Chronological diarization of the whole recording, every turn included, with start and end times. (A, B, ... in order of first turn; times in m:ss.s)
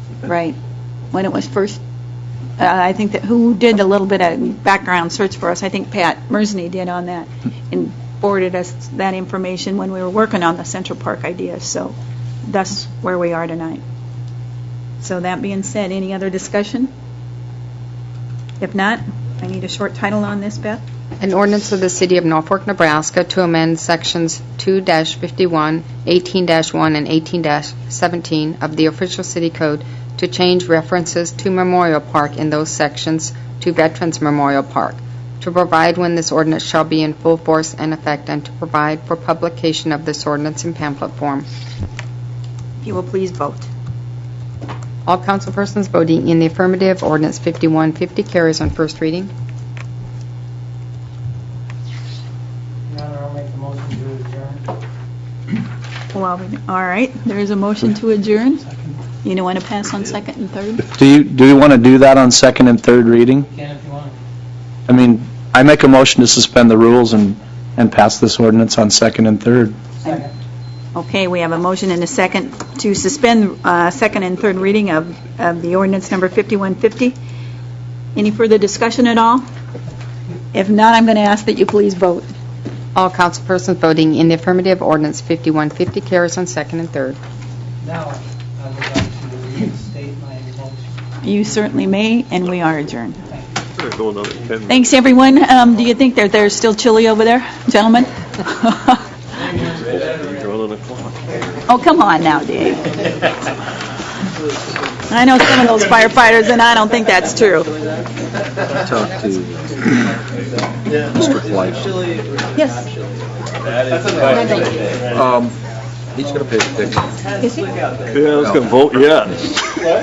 0:00.2-0:00.6 A
0:01.1-0:01.8 A
0:02.6-0:13.8 A
0:15.0-0:16.9 A
0:18.6-0:20.8 A
0:21.2-0:41.4 B
0:42.8-0:43.7 A
0:45.0-0:49.3 B
0:52.9-0:54.6 C
0:56.1-0:58.7 A
0:59.2-1:00.9 A
1:01.0-1:03.4 D
1:03.4-1:04.2 C
1:04.9-1:09.8 D
1:11.0-1:17.2 A
1:18.1-1:19.4 A
1:20.5-1:22.3 A
1:23.0-1:27.2 B
1:27.8-1:31.1 C
1:31.2-1:33.2 A
1:33.3-1:33.6 C
1:33.8-1:34.9 E
1:34.7-1:39.0 A
1:39.7-1:41.4 E
1:41.7-1:42.9 A
1:45.1-1:47.7 A
1:48.8-1:49.6 F
1:51.1-1:52.0 F
1:52.6-1:52.9 A
1:54.3-1:54.7 A
1:55.1-1:55.6 F
1:56.1-1:57.2 F
1:57.4-1:57.7 A
1:58.1-1:59.7 E